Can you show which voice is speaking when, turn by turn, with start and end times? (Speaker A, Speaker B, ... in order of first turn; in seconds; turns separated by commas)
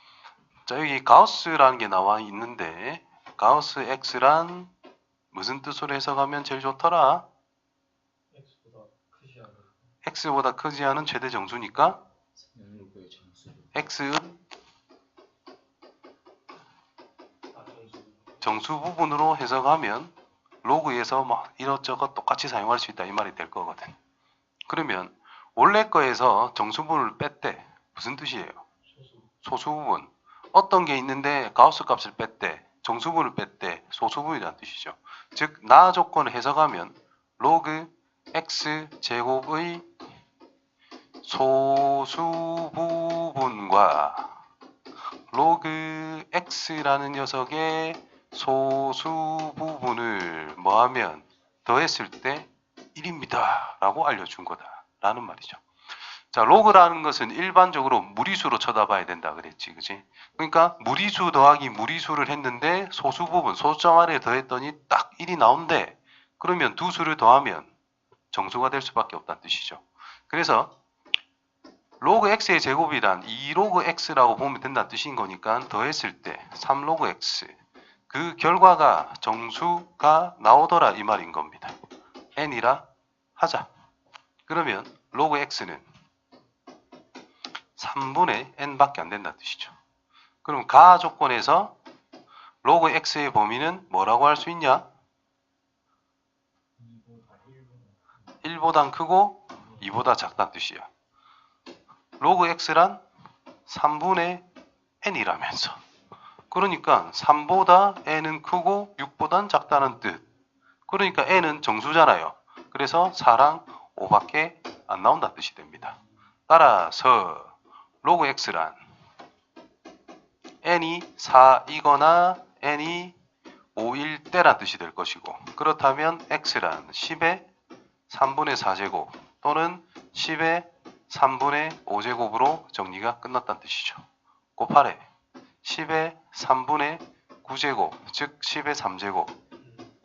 Speaker A: 0.7-4.7, Speaker A: 5.3-7.2, Speaker B: 8.3-9.7, Speaker A: 10.0-12.0, Speaker B: 12.4-13.7, Speaker A: 13.7-14.4, Speaker B: 17.5-18.4, Speaker A: 18.4-24.0, Speaker A: 24.7-28.6, Speaker B: 28.9-29.3, Speaker A: 29.4-39.9, Speaker A: 41.2-44.3, Speaker A: 45.3-55.6, Speaker A: 56.3-67.7, Speaker A: 68.3-70.7, Speaker A: 72.0-77.5, Speaker A: 78.1-81.8, Speaker A: 82.3-82.8, Speaker A: 83.4-83.7, Speaker A: 84.5-85.8, Speaker A: 87.8-89.8, Speaker A: 90.4-91.8, Speaker A: 92.6-94.9, Speaker B: 96.8-98.1, Speaker A: 98.4-100.9, Speaker A: 102.2-103.0, Speaker A: 103.7-104.4, Speaker A: 105.0-105.8, Speaker A: 106.5-110.2, Speaker A: 110.9-116.0, Speaker A: 116.5-118.8, Speaker A: 120.6-123.1, Speaker A: 123.8-127.5, Speaker A: 128.1-134.0, Speaker A: 134.6-135.0, Speaker A: 135.6-139.3